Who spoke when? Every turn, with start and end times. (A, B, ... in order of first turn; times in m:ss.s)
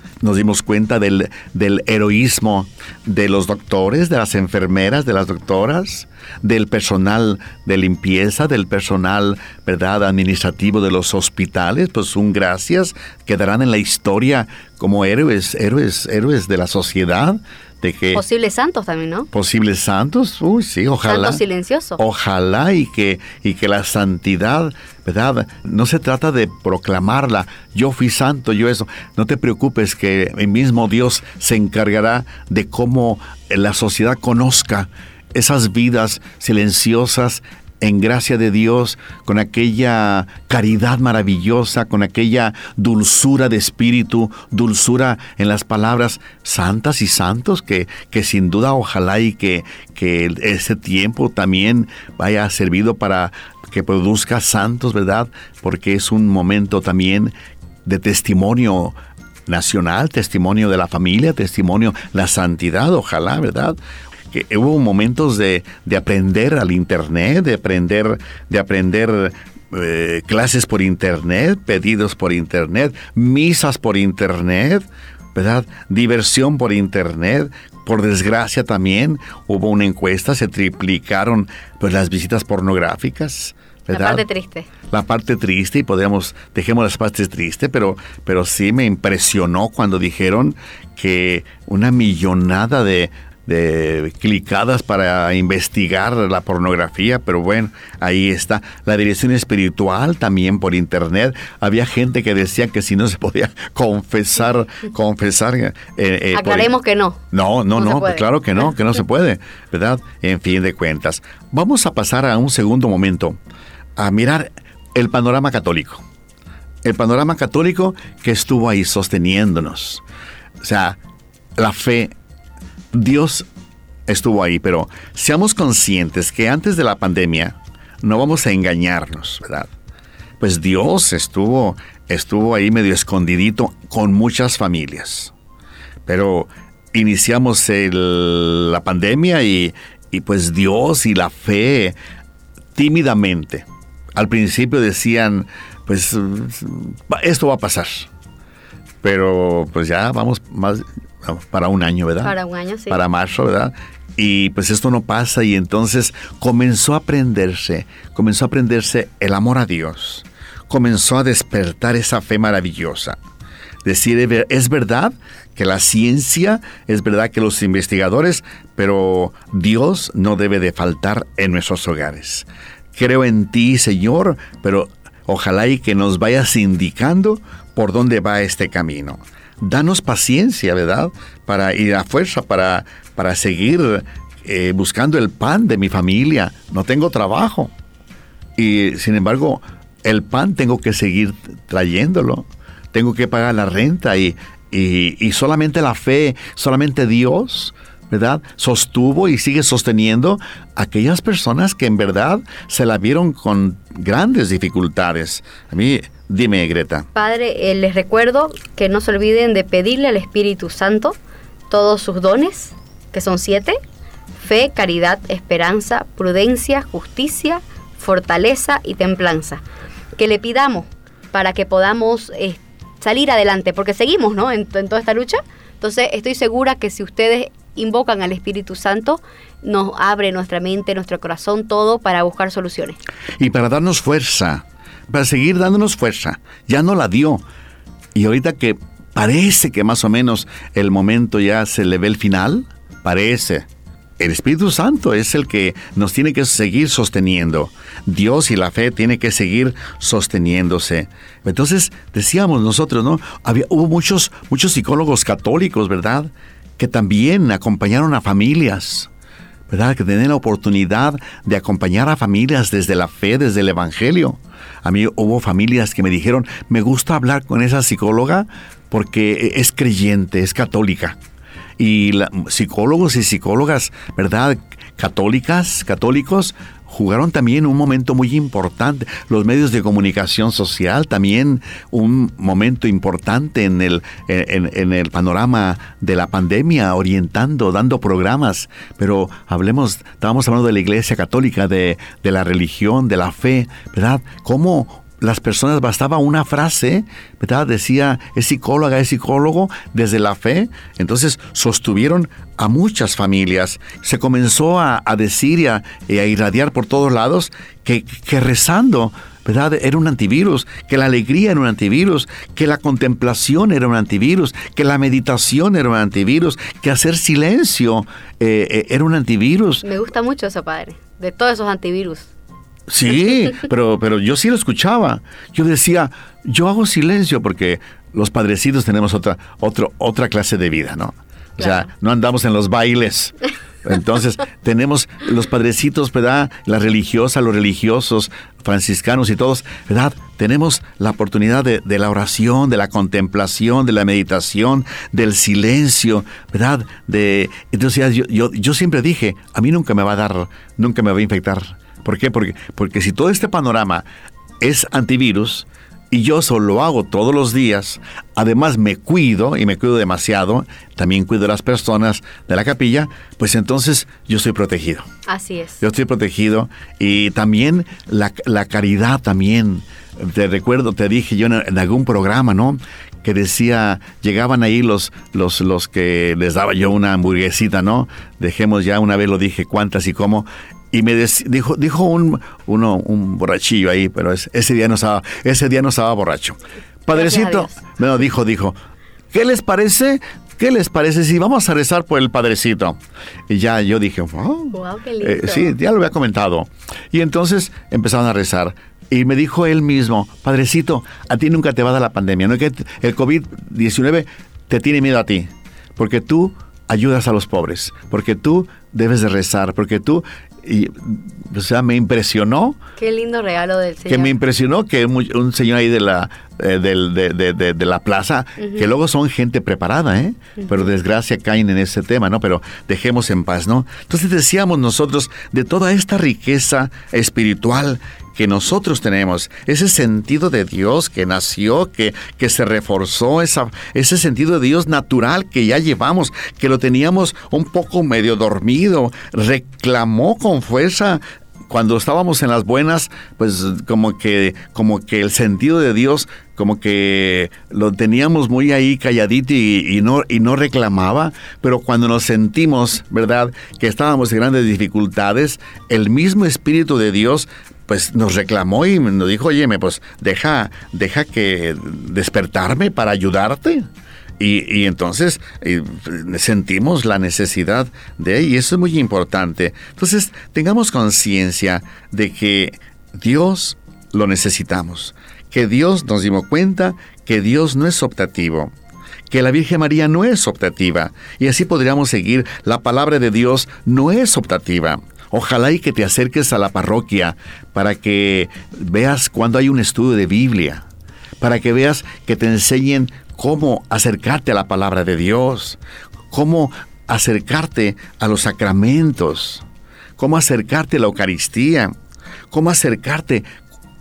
0:00.2-0:18.2 A
0:18.1-0:19.3 B
0:19.3-0:21.4 A
0:21.0-0:22.0 B
0:22.0-0:57.3 A
0:57.8-0:59.0 A
0:59.5-1:03.8 A
1:04.3-1:24.2 A
1:23.9-1:24.7 B
1:24.9-1:46.7 A
1:46.3-1:47.2 B
1:47.3-1:53.4 A
1:47.7-1:48.7 B
1:54.0-1:56.0 A
1:56.8-2:00.0 A
2:00.6-2:01.0 A
2:01.6-2:02.1 A
2:02.9-2:03.5 A
2:04.1-2:09.7 A
2:10.4-2:15.3 A
2:16.0-2:22.0 A
2:22.7-2:28.1 A
2:29.0-2:32.3 A
2:32.2-2:33.0 B
2:32.9-2:43.2 A
2:43.8-3:07.7 A
3:08.6-3:27.1 A
3:27.1-3:31.2 B
3:31.7-3:33.8 B
3:34.4-3:39.6 B
3:40.2-3:53.0 B
3:53.4-3:57.4 A
3:58.1-4:03.7 A
4:04.2-4:19.1 A
4:19.7-4:31.2 A
4:31.8-5:19.8 A
5:19.8-5:22.3 B
5:22.9-5:54.0 A
5:31.6-5:31.9 B
5:54.6-6:05.1 A
6:05.3-6:05.8 B
6:05.8-6:28.8 A
6:27.1-6:27.8 B
6:29.3-6:33.0 A
6:33.5-6:52.8 A
6:34.7-6:35.8 B
6:53.0-6:54.4 B
6:54.1-7:43.9 A
7:44.4-7:58.7 A
7:59.3-8:10.8 A
8:11.4-8:15.8 A
8:16.3-8:19.6 A
8:20.2-8:21.9 A
8:22.5-8:23.4 A